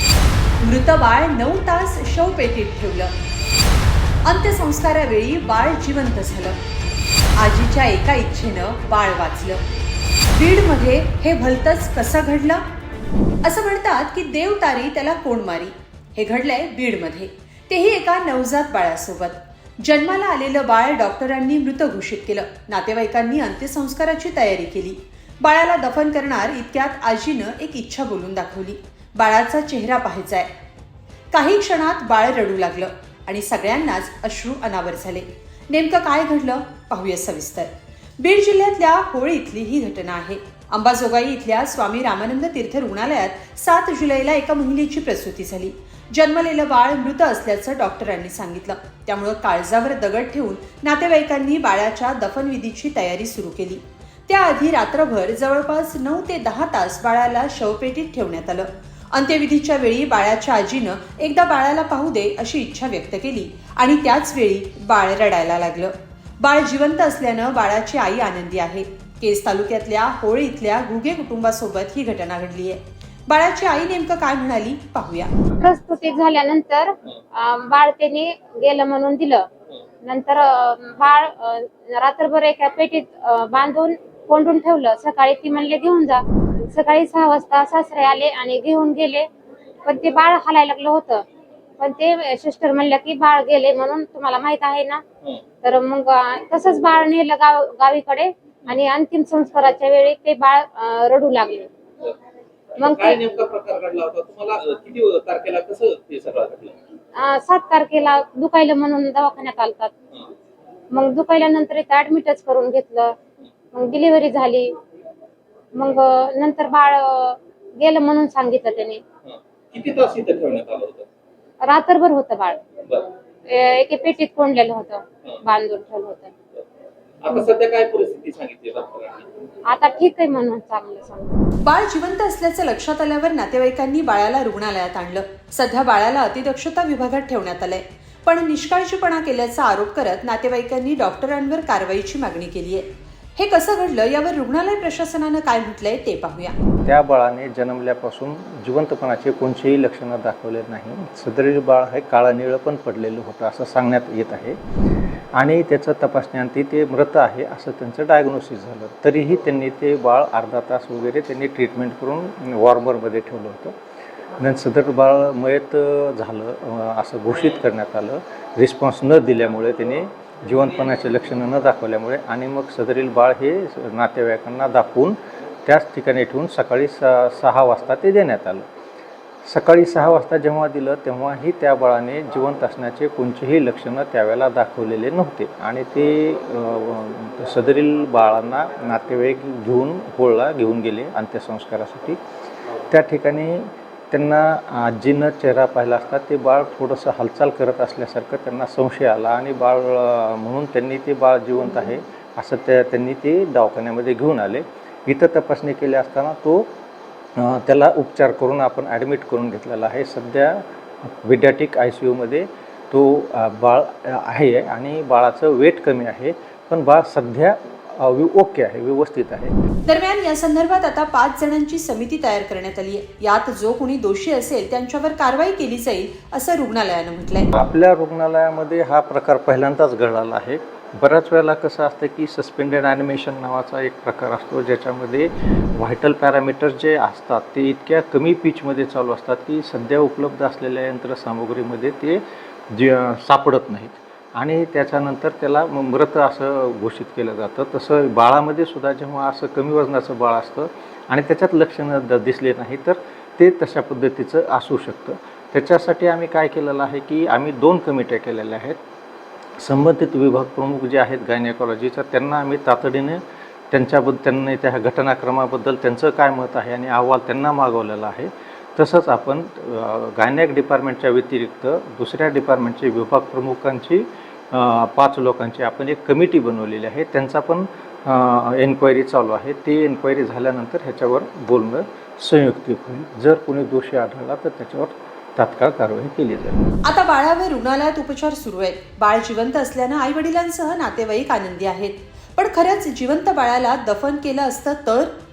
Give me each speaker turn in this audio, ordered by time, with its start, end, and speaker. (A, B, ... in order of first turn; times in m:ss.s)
0:00.6-0:03.1 A
0:04.2-0:06.6 A
0:07.4-0:09.6 A
0:10.3-0:12.6 A
0:13.4-0:30.5 A
0:31.3-1:15.3 A
1:15.6-1:19.4 B
1:20.0-1:29.3 B
1:29.8-1:31.2 B
1:31.8-1:35.0 B
1:35.6-1:41.7 B
1:42.8-1:46.8 C
1:42.8-1:43.2 B
1:47.1-1:49.9 B
1:50.9-1:53.2 B
1:53.7-1:54.7 B
1:55.7-1:59.0 B
1:59.2-2:01.1 C
2:01.6-2:02.6 B
2:03.5-2:06.3 B
2:07.2-2:09.3 C
2:09.7-2:11.4 B
2:11.6-2:26.5 A
2:26.8-2:34.6 D
2:35.4-2:43.7 D
2:44.4-2:58.6 D
2:59.4-3:12.2 D
3:12.9-3:26.7 D
3:27.4-3:39.5 D
3:39.8-3:47.5 A
3:47.5-4:18.8 D
4:19.6-4:46.7 D
4:46.8-4:55.1 A